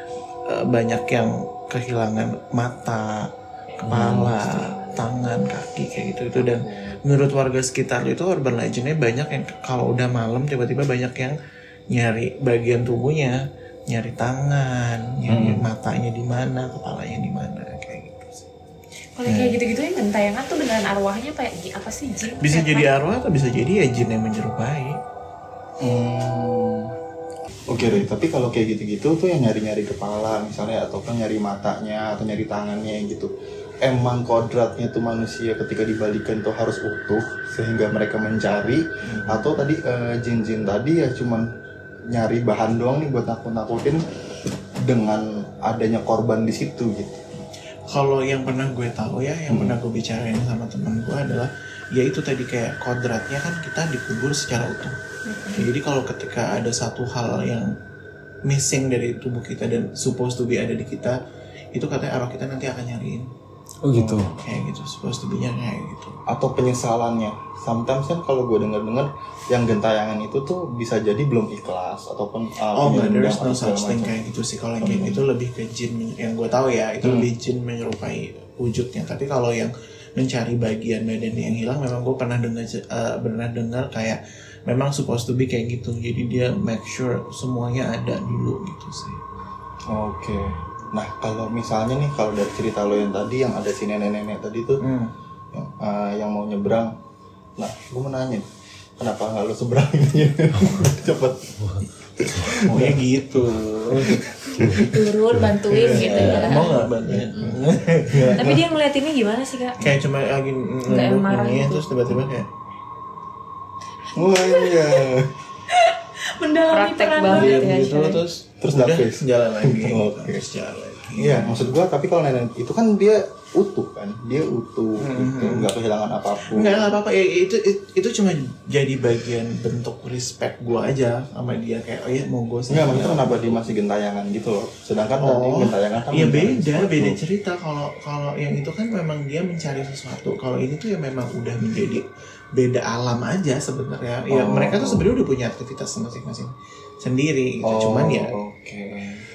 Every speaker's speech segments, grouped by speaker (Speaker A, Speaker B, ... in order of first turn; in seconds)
Speaker A: 0.5-11.4, 11.9-18.5, 22.4-25.0, 39.1-39.4, 47.9-55.0, 55.5-57.7, 58.5-61.2, 61.7-63.3, 64.4-66.2, 72.7-89.2, 94.8-95.1, 102.5-104.2, 105.7-108.7, 109.8-112.5, 117.3-121.5, 125.0-125.7, 126.4-133.6, 135.2-148.3
Speaker B: 3.9-4.3, 6.4-7.0, 15.3-15.7, 25.8-26.9, 27.7-33.3, 33.8-41.5, 42.1-44.0, 44.8-47.2, 49.5-49.8, 63.9-64.4, 66.3-74.1, 77.0-77.3, 89.9-94.8, 95.5-96.9, 97.6-98.5, 99.0-101.6, 102.5-103.4, 103.9-105.0, 105.7-108.6, 114.1-115.4, 118.6-120.5, 121.1-127.0, 132.7-137.2, 144.3-145.2, 147.6-149.2
Speaker C: 4.5-5.1, 108.3-109.8, 111.0-111.8, 116.7-118.2, 121.3-121.6
Speaker D: 19.2-22.9, 104.8-106.8, 110.9-111.9, 114.2-115.1, 115.7-118.1
Speaker E: 63.8-64.4, 101.6-102.7, 104.6-104.9